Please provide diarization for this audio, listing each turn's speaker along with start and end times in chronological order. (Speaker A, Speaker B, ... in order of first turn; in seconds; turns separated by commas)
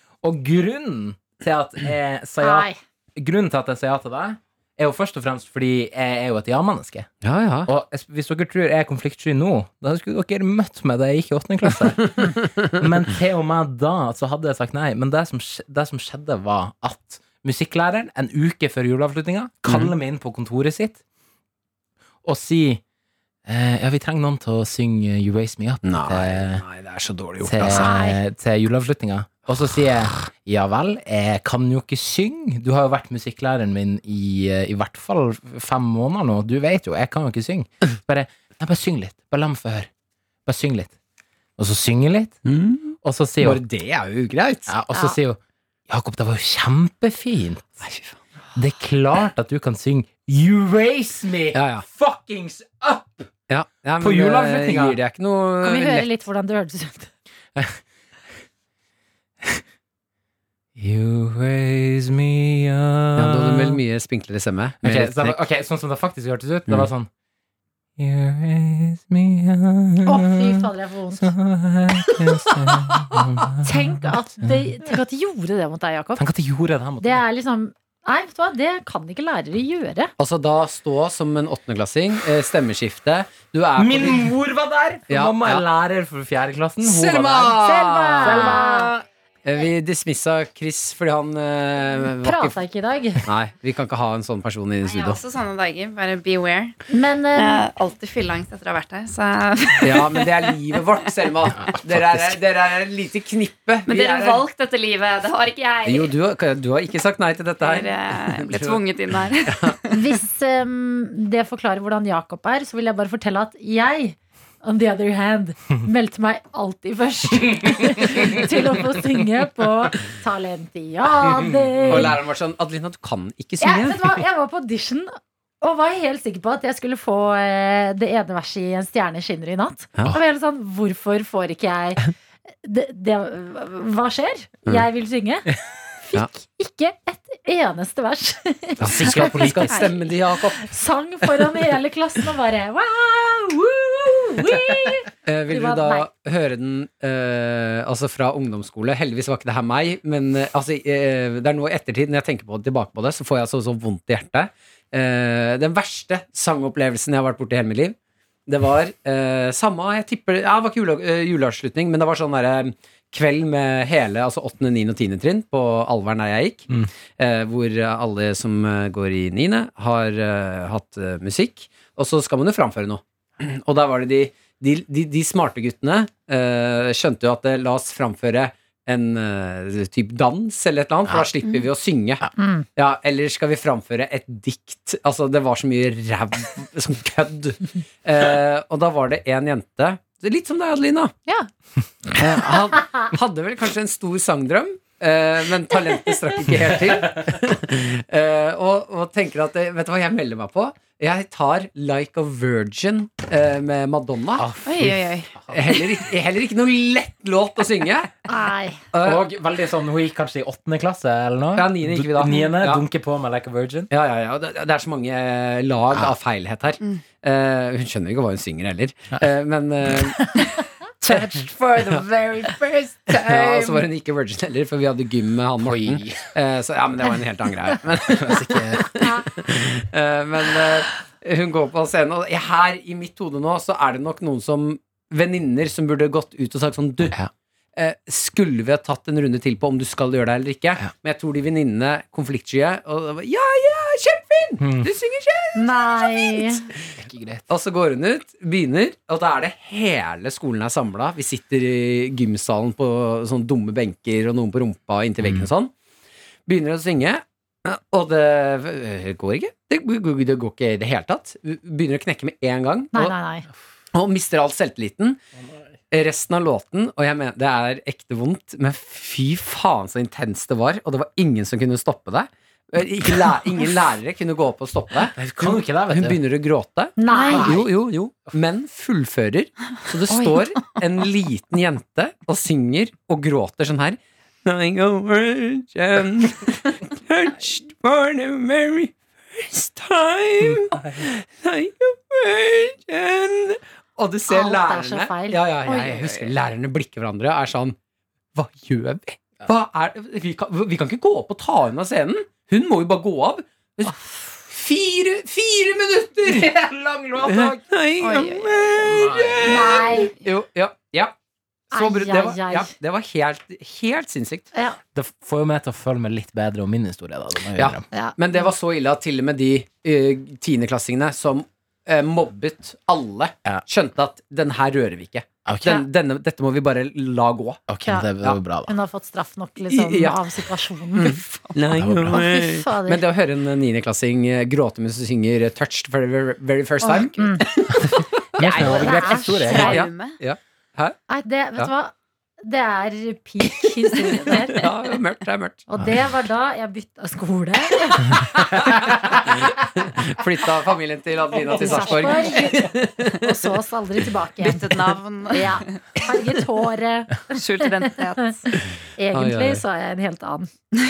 Speaker A: 0.2-7.1, Speaker B: 2.4-2.8, Speaker C: 7.2-7.7, Speaker A: 7.7-21.0, Speaker C: 19.7-19.9, Speaker A: 22.2-22.8, Speaker A: 23.5-26.6, Speaker C: 25.8-27.9, Speaker A: 27.4-39.9, Speaker B: 27.8-28.2, Speaker A: 40.5-40.9, Speaker A: 41.6-42.4, Speaker C: 42.5-44.7, Speaker A: 43.0-43.6, Speaker A: 44.7-47.8, Speaker C: 47.8-48.2, Speaker A: 48.5-53.3, Speaker C: 51.5-51.9, Speaker C: 53.5-56.1, Speaker A: 54.0-55.0, Speaker B: 55.6-57.1, Speaker A: 60.8-63.8, Speaker C: 63.2-65.4, Speaker A: 64.8-67.1, Speaker A: 68.0-70.7, Speaker B: 70.0-71.3, Speaker A: 71.2-74.7, Speaker B: 73.6-76.2, Speaker A: 76.2-77.2, Speaker B: 77.0-80.1, Speaker C: 80.2-84.3, Speaker A: 83.8-87.6, Speaker C: 85.1-85.6, Speaker C: 86.8-88.7, Speaker B: 87.6-88.9, Speaker A: 88.2-88.7, Speaker C: 89.5-92.6, Speaker B: 92.2-93.2, Speaker C: 93.2-95.2, Speaker D: 95.0-96.8, Speaker B: 96.9-97.6, Speaker D: 97.3-100.6, Speaker C: 99.8-104.5, Speaker A: 101.6-102.3, Speaker D: 103.9-106.1, Speaker C: 105.9-108.8, Speaker D: 107.6-110.0, Speaker C: 109.5-109.8, Speaker B: 109.9-122.2, Speaker A: 121.7-122.1, Speaker C: 121.9-124.2, Speaker B: 123.6-132.1, Speaker B: 132.6-135.5, Speaker B: 136.0-138.8, Speaker C: 138.8-140.7, Speaker A: 138.8-139.8, Speaker D: 139.1-140.0, Speaker B: 140.6-146.1, Speaker C: 145.2-158.0, Speaker C: 158.5-191.2, Speaker B: 182.4-182.7, Speaker C: 192.2-204.5, Speaker A: 204.4-205.9, Speaker D: 204.6-205.3, Speaker C: 205.5-208.1, Speaker B: 208.3-208.8, Speaker C: 208.9-209.3, Speaker A: 209.0-213.9, Speaker C: 211.6-212.8, Speaker C: 213.9-222.6, Speaker A: 221.0-223.7, Speaker C: 223.1-237.2, Speaker A: 225.6-226.3, Speaker A: 228.1-228.9, Speaker C: 237.8-246.6, Speaker A: 244.6-244.9, Speaker B: 245.6-246.6, Speaker A: 247.0-247.4, Speaker C: 247.5-255.7, Speaker A: 255.2-255.5, Speaker C: 256.5-263.1, Speaker B: 262.9-263.5, Speaker C: 263.9-265.2, Speaker C: 265.9-297.8, Speaker A: 275.1-276.2, Speaker B: 277.0-277.6, Speaker D: 277.1-277.5, Speaker B: 294.3-296.1, Speaker C: 298.3-306.5, Speaker A: 306.2-307.6, Speaker C: 307.2-311.1, Speaker D: 308.0-308.8, Speaker A: 308.8-309.8, Speaker B: 309.4-310.1, Speaker C: 311.7-314.5, Speaker B: 311.7-312.7, Speaker A: 314.9-317.8, Speaker C: 317.6-327.6, Speaker A: 325.5-325.8, Speaker A: 327.7-328.7, Speaker B: 328.7-331.2, Speaker C: 329.7-341.0, Speaker A: 331.7-332.2, Speaker B: 332.1-333.0, Speaker B: 336.8-337.5, Speaker A: 338.4-339.9, Speaker B: 338.6-339.7, Speaker D: 338.6-340.2, Speaker B: 341.1-344.6, Speaker C: 344.5-345.7, Speaker B: 345.7-348.2, Speaker C: 348.3-353.1, Speaker B: 351.5-354.8, Speaker D: 354.4-356.0, Speaker B: 355.3-360.5, Speaker D: 357.3-358.4, Speaker C: 359.1-359.6